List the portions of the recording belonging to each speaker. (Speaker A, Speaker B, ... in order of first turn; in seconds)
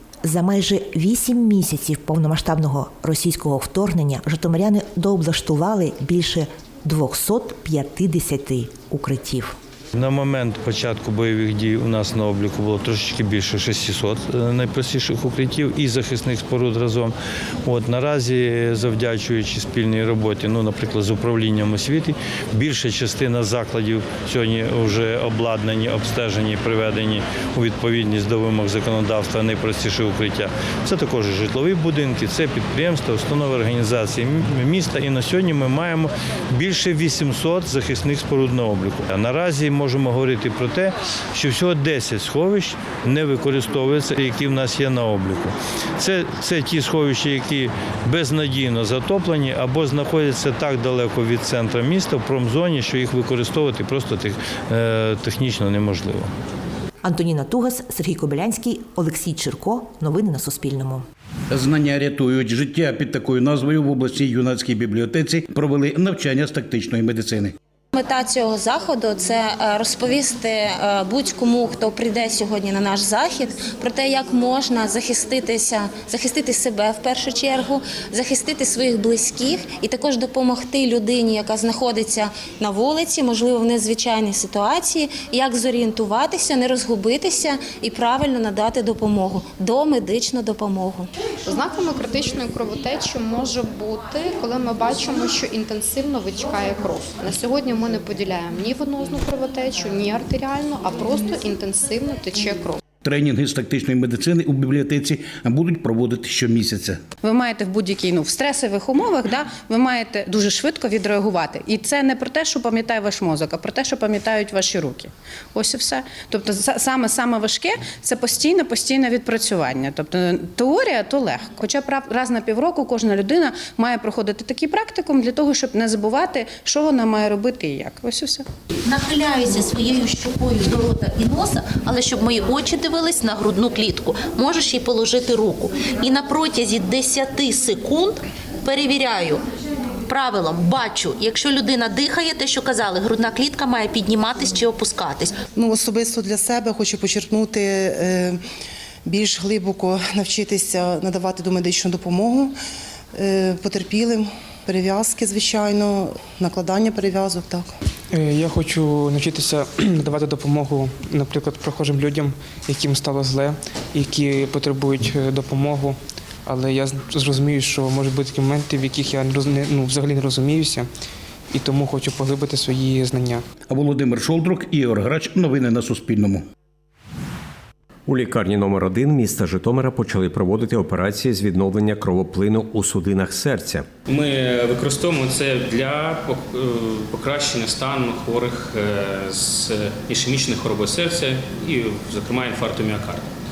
Speaker A: 0.2-9.5, 57.0-61.0
Speaker B: 9.9-17.1, 17.6-56.3
Speaker C: 61.5-67.5, 103.0-107.0, 173.7-176.4
Speaker D: 67.9-91.1
Speaker E: 91.5-102.8
Speaker F: 107.2-128.4
Speaker G: 128.8-139.4, 140.1-145.3
Speaker H: 145.5-148.4, 149.0-152.5, 153.1-157.7
Speaker I: 158.1-170.9, 171.5-173.4
Speaker J: 178.1-183.8
Speaker K: 184.1-193.3